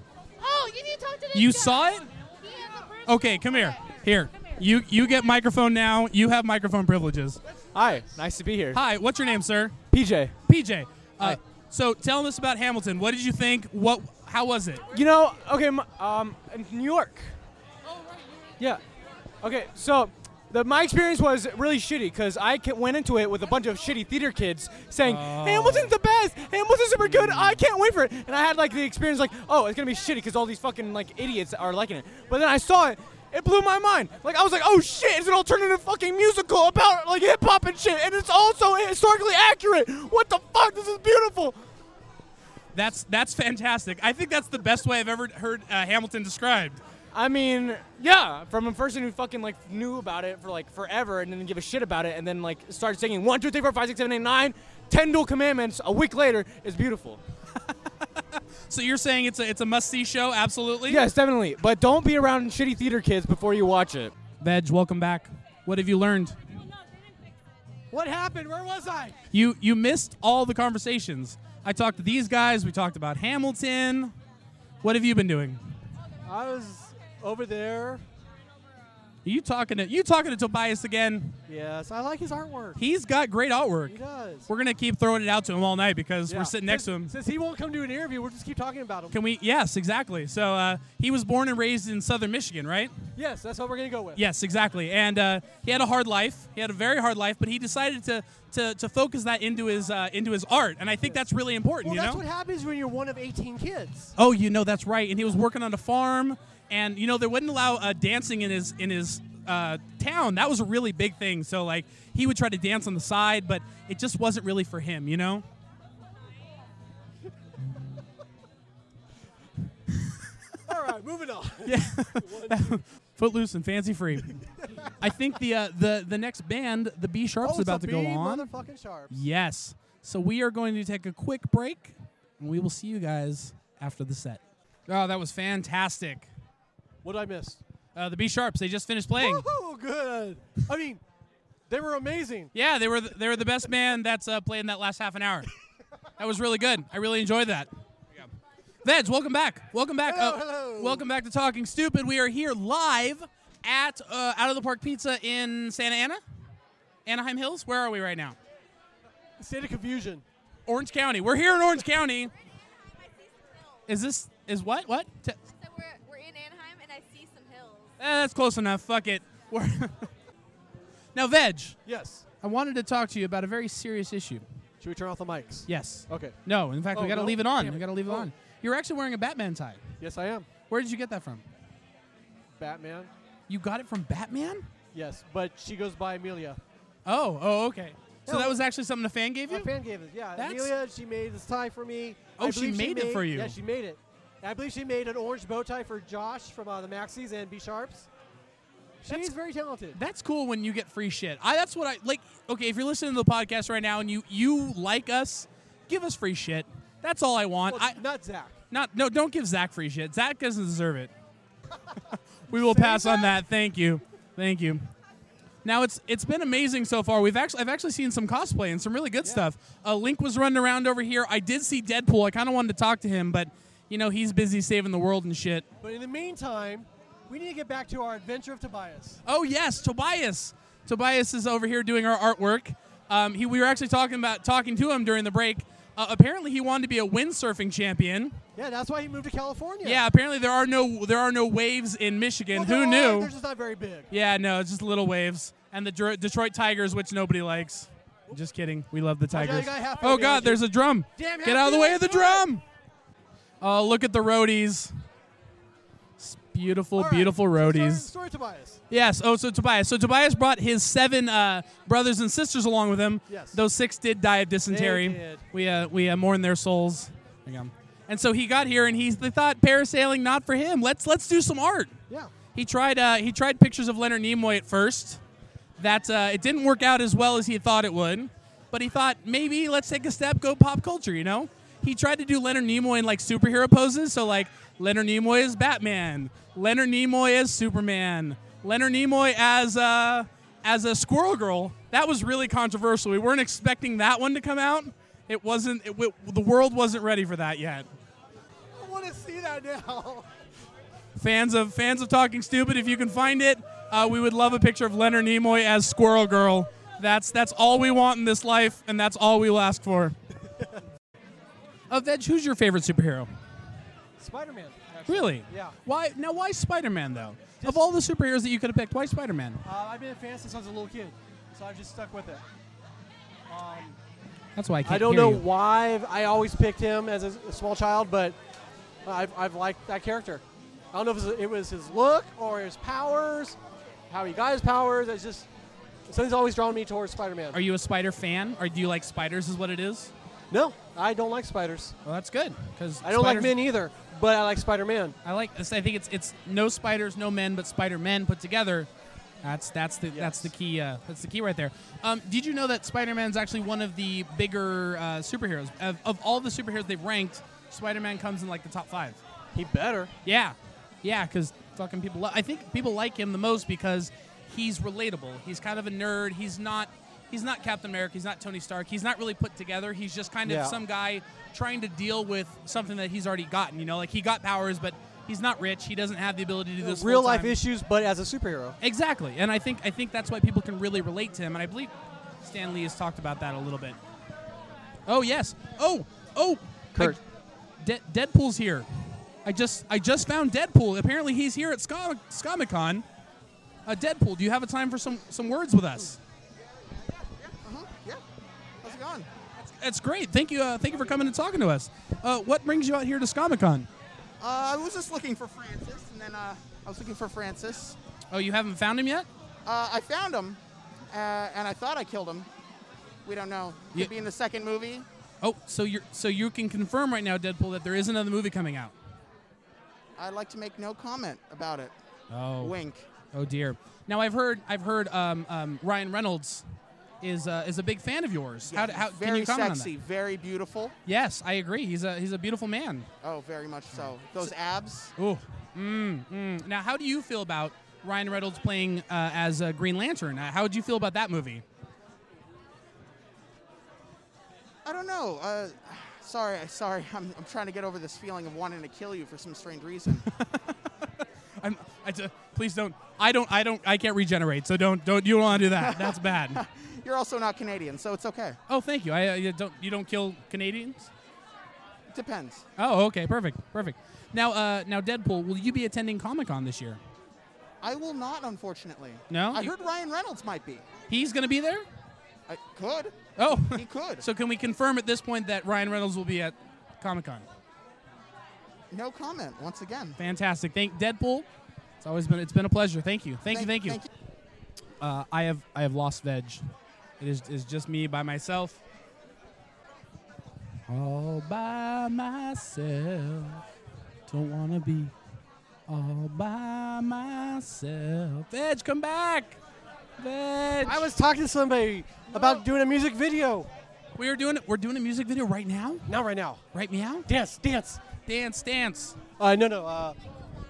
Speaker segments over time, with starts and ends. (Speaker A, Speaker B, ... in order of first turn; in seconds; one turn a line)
Speaker A: 0.4-4.6
Speaker B: 1.3-2.1
Speaker B: 3.1-7.4
Speaker C: 7.7-8.8
Speaker B: 8.7-9.8
Speaker C: 9.9-10.3
Speaker B: 10.4-14.8
Speaker C: 14.9-17.3
Speaker C: 19.4-41.6
Speaker B: 25.0-25.9
Speaker B: 27.1-27.6
Speaker B: 42.7-46.8
Speaker C: 47.1-57.2
Speaker B: 57.6-61.0
Speaker C: 60.9-64.1
Speaker B: 64.4-66.3
Speaker D: 67.9-69.2
Speaker B: 69.3-74.1
Speaker B: 74.8-75.6
Speaker D: 76.2-78.0
Speaker B: 79.2-81.4
Speaker D: 81.5-82.8
Speaker B: 82.8-87.1
Speaker D: 83.9-84.5
Speaker D: 86.3-89.2
Speaker B: 89.1-92.9
Speaker D: 93.2-94.2
Speaker B: 94.2-102.2
Speaker D: 101.8-104.1
Speaker B: 104.2-115.4
Speaker D: 120.7-122.8
Speaker B: 121.6-124.4
Speaker D: 124.6-124.9
Speaker B: 125.0-128.5
Speaker D: 127.4-129.2
Speaker B: 129.1-136.3
Speaker D: 137.0-137.6
Speaker B: 137.9-139.5
Speaker D: 139.2-141.0
Speaker D: 141.7-142.5
Speaker B: 142.5-145.5
Speaker B: 146.2-148.2
Speaker B: 148.8-156.2
Speaker D: 150.0-151.1
Speaker B: 157.1-158.3
Speaker D: 159.4-160.2
Speaker B: 160.7-162.3
Speaker E: 162.5-164.0
Speaker B: 163.9-165.4
Speaker E: 165.6-167.9
Speaker B: 168.0-170.1
Speaker B: 171.1-171.8
Speaker D: 171.8-172.2
Speaker B: 172.4-174.4
Speaker D: 174.8-176.4
Speaker B: 175.7-179.8
Speaker D: 176.9-178.3
Speaker D: 180.0-180.5
Speaker B: 180.6-181.4
Speaker D: 182.5-183.1
Speaker B: 183.5-184.7
Speaker D: 184.9-186.6
Speaker B: 187.1-189.7
Speaker D: 188.3-188.6
Speaker D: 189.5-198.1
Speaker B: 190.3-190.7
Speaker B: 192.4-193.5
Speaker D: 199.0-200.0
Speaker B: 199.9-208.0
Speaker D: 207.7-208.6
Speaker B: 208.7-211.1
Speaker B: 212.5-214.9
Speaker D: 212.5-213.4
Speaker B: 215.6-225.7
Speaker D: 225.8-229.2
Speaker B: 229.2-238.4
Speaker D: 238.6-240.0
Speaker B: 239.8-243.3
Speaker D: 242.5-244.1
Speaker B: 244.1-252.6
Speaker D: 249.3-252.5
Speaker B: 253.6-254.9
Speaker B: 256.2-258.1
Speaker D: 256.9-258.8
Speaker B: 258.9-271.9
Speaker D: 263.3-263.6
Speaker D: 264.7-265.4
Speaker B: 272.5-275.2
Speaker B: 275.8-297.9
Speaker D: 298.7-300.3
Speaker B: 301.1-310.1
Speaker B: 311.9-313.3
Speaker D: 314.2-315.8
Speaker B: 315.1-319.6
Speaker D: 319.6-322.4
Speaker D: 323.5-324.0
Speaker B: 324.6-325.4
Speaker D: 324.8-328.4
Speaker D: 329.0-333.6
Speaker D: 334.1-335.5
Speaker D: 336.1-337.6
Speaker B: 337.5-340.1
Speaker D: 340.5-341.9
Speaker B: 342.1-343.6
Speaker D: 343.0-345.1
Speaker B: 345.2-348.9
Speaker B: 349.4-359.2
Speaker D: 350.1-350.5
Speaker D: 359.5-360.1
Speaker B: 360.2-377.6
Speaker D: 370.4-370.8
Speaker D: 376.8-378.8
Speaker B: 378.8-384.0
Speaker B: 385.1-387.2
Speaker B: 387.8-388.9
Speaker B: 389.4-393.0
Speaker B: 393.9-396.2
Speaker F: 397.5-398.2
Speaker F: 398.8-399.3
Speaker B: 399.6-403.9
Speaker F: 404.4-408.0
Speaker B: 408.3-409.3
Speaker F: 409.6-412.5
Speaker F: 413.2-415.1
Speaker B: 415.4-418.9
Speaker F: 420.2-421.9
Speaker B: 422.3-422.8
Speaker F: 422.6-423.1
Speaker B: 423.3-426.6
Speaker B: 427.2-429.9
Speaker F: 428.7-430.9
Speaker B: 431.1-433.1
Speaker F: 433.2-435.1
Speaker B: 435.2-441.6
Speaker F: 444.8-450.2
Speaker B: 450.3-450.7
Speaker B: 451.6-456.6
Speaker F: 455.6-458.6
Speaker B: 458.7-461.1
Speaker F: 462.1-462.6
Speaker B: 462.8-467.0
Speaker F: 467.8-470.9
Speaker B: 469.3-469.7
Speaker B: 471.1-471.8
Speaker F: 472.5-474.2
Speaker B: 473.4-477.4
Speaker F: 478.9-480.2
Speaker B: 480.2-481.4
Speaker B: 482.0-484.0
Speaker F: 483.5-484.1
Speaker B: 485.0-486.6
Speaker B: 487.2-488.8
Speaker B: 490.9-493.6
Speaker B: 494.3-495.1
Speaker B: 495.9-499.6
Speaker B: 500.2-501.1
Speaker D: 500.8-503.7
Speaker B: 502.3-502.6
Speaker B: 504.1-506.1
Speaker D: 506.1-506.6
Speaker B: 506.7-507.3
Speaker D: 507.3-508.1
Speaker B: 508.3-509.2
Speaker D: 509.4-510.2